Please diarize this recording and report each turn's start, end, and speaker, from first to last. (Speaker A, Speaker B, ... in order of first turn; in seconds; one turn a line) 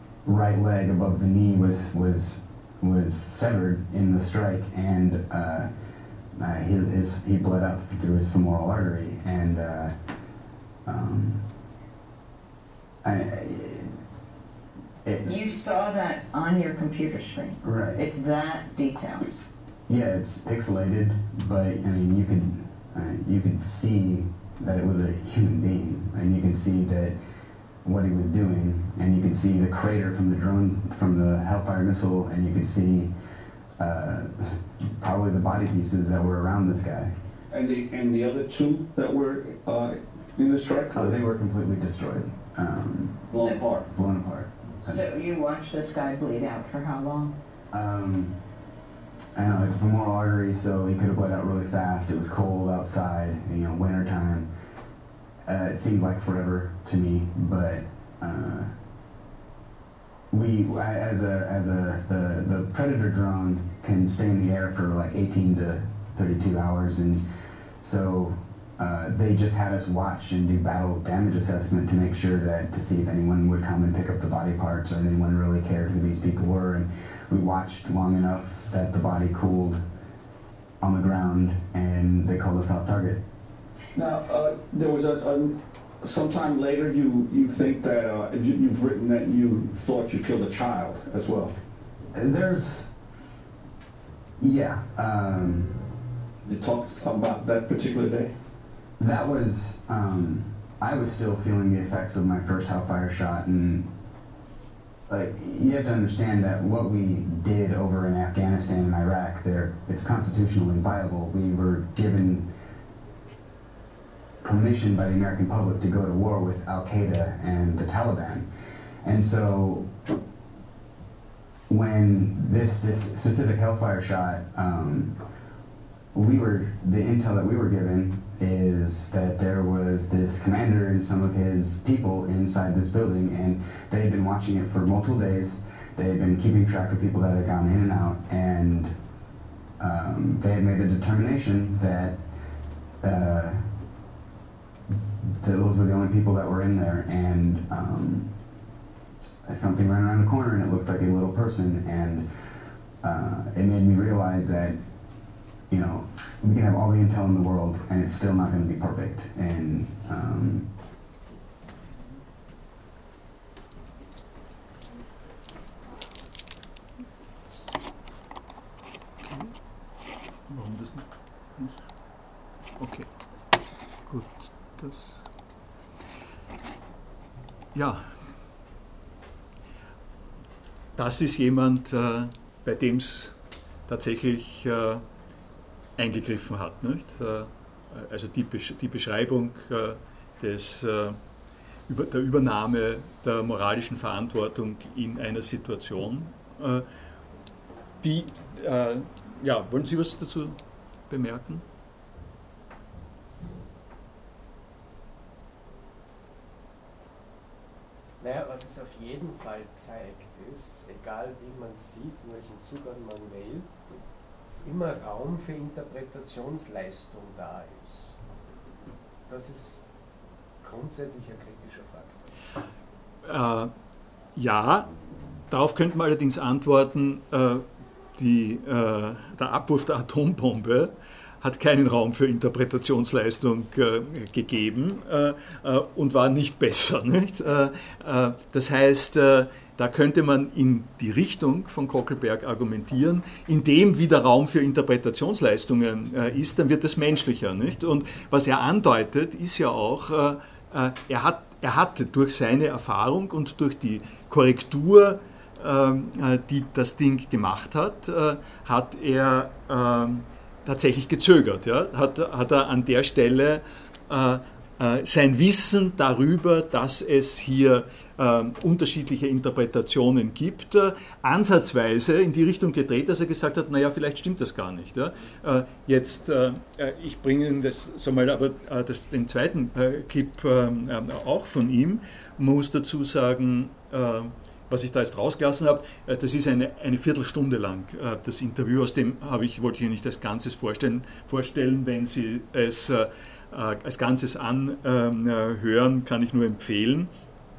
Speaker A: 0.2-5.7
Speaker A: 6.4-9.9
Speaker A: 10.9-11.4
Speaker A: 13.0-13.9
Speaker A: 15.1-15.3
Speaker B: 15.2-19.3
Speaker A: 17.6-18.0
Speaker A: 19.9-27.1
Speaker A: 27.8-33.1
Speaker A: 33.8-37.1
Speaker C: 37.5-41.2
Speaker A: 41.0-43.3
Speaker C: 43.3-43.9
Speaker A: 43.8-45.0
Speaker B: 44.9-47.4
Speaker A: 47.7-48.4
Speaker A: 49.4-54.5
Speaker A: 55.5-58.7
Speaker A: 60.3-67.2
Speaker A: 67.8-79.8
Speaker A: 80.8-83.2
Speaker C: 84.0-91.5
Speaker A: 92.1-92.9
Speaker A: 94.4-95.8
Speaker C: 96.5-98.3
Speaker A: 99.0-103.9
Speaker A: 105.1-112.5
Speaker A: 114.4-118.5
Speaker A: 119.0-119.9
Speaker A: 121.7-125.2
Speaker A: 126.1-138.9
Speaker A: 139.8-142.2
Speaker A: 143.0-143.7
Speaker A: 145.4-148.3
Speaker A: 149.2-152.3
Speaker A: 153.0-154.8
Speaker A: 155.7-160.7
Speaker D: 169.2-169.6
Speaker D: 170.5-171.8
Speaker D: 172.8-173.1
Speaker D: 174.1-175.3
Speaker D: 177.8-178.2
Speaker D: 181.0-183.4
Speaker D: 183.9-185.0
Speaker D: 186.0-191.2
Speaker D: 191.9-196.9
Speaker D: 198.0-200.6
Speaker D: 201.1-201.6
Speaker E: 208.2-213.8
Speaker E: 214.5-218.2
Speaker E: 219.3-219.8
Speaker E: 220.6-222.3
Speaker D: 223.3-223.7
Speaker D: 224.4-224.9
Speaker D: 225.5-227.7
Speaker D: 228.2-297.1